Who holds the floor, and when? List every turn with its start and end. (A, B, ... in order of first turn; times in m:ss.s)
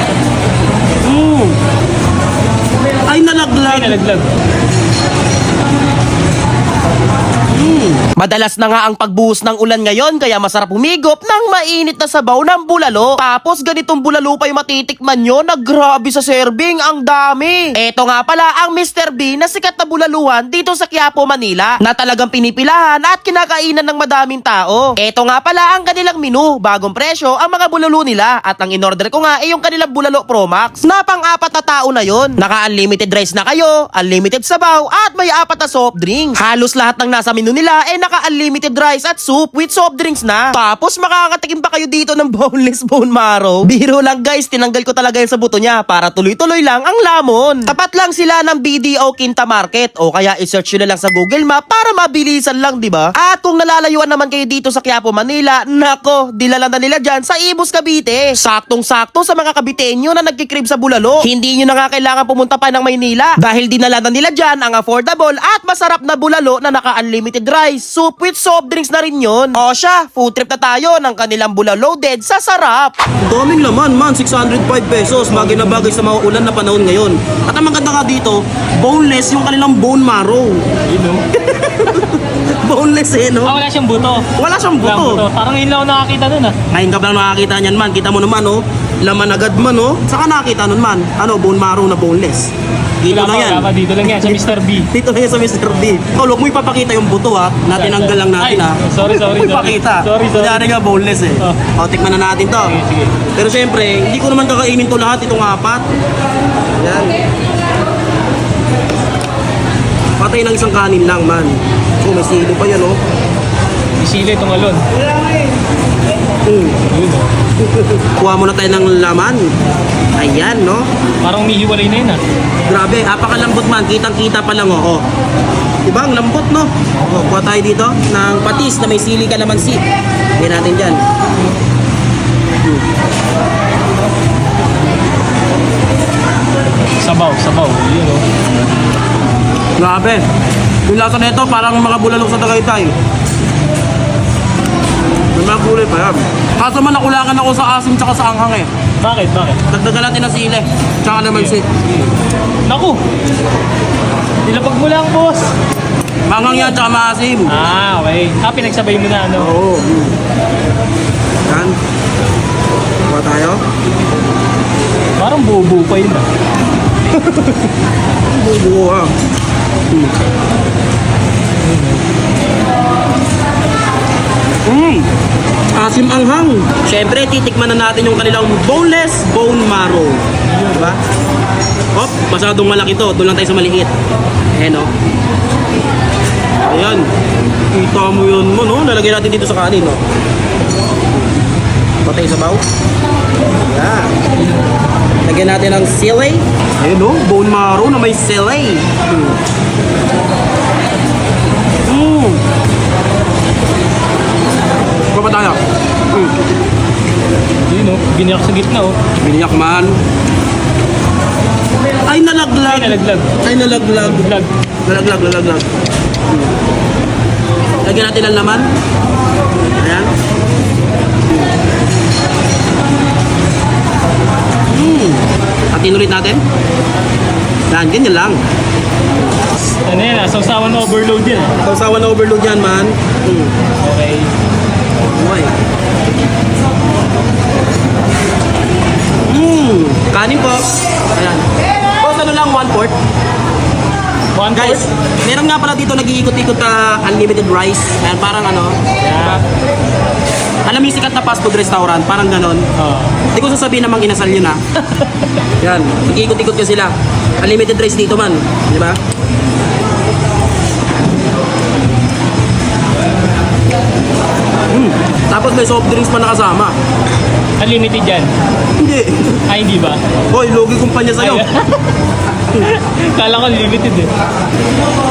0:01.0-0:01.6 A
0:03.1-0:04.0 A
0:03.7-0:04.3 B
0:07.6-0:08.1 A
0:08.2-1:13.0 C
1:13.2-1:20.6 A
1:15.3-1:16.0 B
1:20.9-1:21.2 B
1:21.4-1:23.5 A
1:23.4-1:24.3 B
1:24.4-1:25.2 A
1:24.8-1:26.6 B
1:26.7-1:32.5 A
1:33.0-1:42.7 A
1:33.1-1:34.9 B
1:37.8-1:40.6 B
1:42.6-1:43.1 B
1:43.4-1:45.9 A
1:46.8-1:47.2 A
1:50.2-1:53.0 A
1:54.0-1:54.8 B
1:56.4-1:56.8 A
1:56.9-1:57.3 B
1:57.6-1:59.5 A
2:00.2-2:00.9 A
2:01.2-2:02.2 B
2:02.6-2:05.0 A
2:05.8-2:09.8 A
2:10.4-2:11.0 A
2:17.0-2:18.2 B
2:19.8-2:20.2 A
2:20.9-2:23.0 A
2:25.3-2:28.7 A
2:29.0-2:29.6 B
2:29.7-2:31.7 A
2:31.3-2:32.0 B
2:32.7-2:33.0 B
2:34.4-2:35.5 B
2:36.3-2:37.5 A
2:37.5-2:39.5 B
2:39.4-2:40.2 A
2:41.4-2:41.8 A
2:43.1-2:43.6 A
2:45.2-2:46.2 B
2:48.3-2:49.1 A
2:51.6-2:52.0 B
2:54.7-2:55.1 A
2:55.7-3:00.2 A
3:00.5-3:01.0 B
3:00.7-3:01.0 A
3:02.0-3:03.9 A
3:04.5-3:04.9 A
3:06.7-3:07.1 A
3:07.7-3:10.0 A
3:12.0-3:12.6 A
3:13.6-3:14.2 A
3:15.2-3:19.4 A
3:21.9-3:22.4 A
3:25.1-3:25.6 A
3:27.7-3:29.0 B
3:29.2-3:30.0 A
3:32.1-3:34.3 A
3:32.7-3:33.4 B
3:34.0-3:34.5 B
3:34.8-3:35.7 A
3:37.8-3:38.7 A
3:39.8-3:40.1 A
3:44.7-3:46.4 A
3:47.7-3:48.4 A
3:49.8-3:51.6 B
3:51.6-3:53.5 A
3:53.8-3:54.3 B
3:55.1-3:55.5 A
3:59.3-4:01.5 A
4:02.0-4:03.0 A
4:04.4-4:04.8 B
4:04.5-4:09.4 A
4:09.0-4:09.4 B
4:10.6-4:12.7 A
4:12.8-4:13.2 B
4:13.3-4:14.6 A
4:15.6-4:19.0 A
4:24.7-4:26.8 A
4:27.6-4:28.3 B
4:28.8-4:29.4 A
4:29.5-4:30.0 B
4:30.3-4:31.5 A
4:31.2-4:31.8 B
4:32.5-4:34.1 B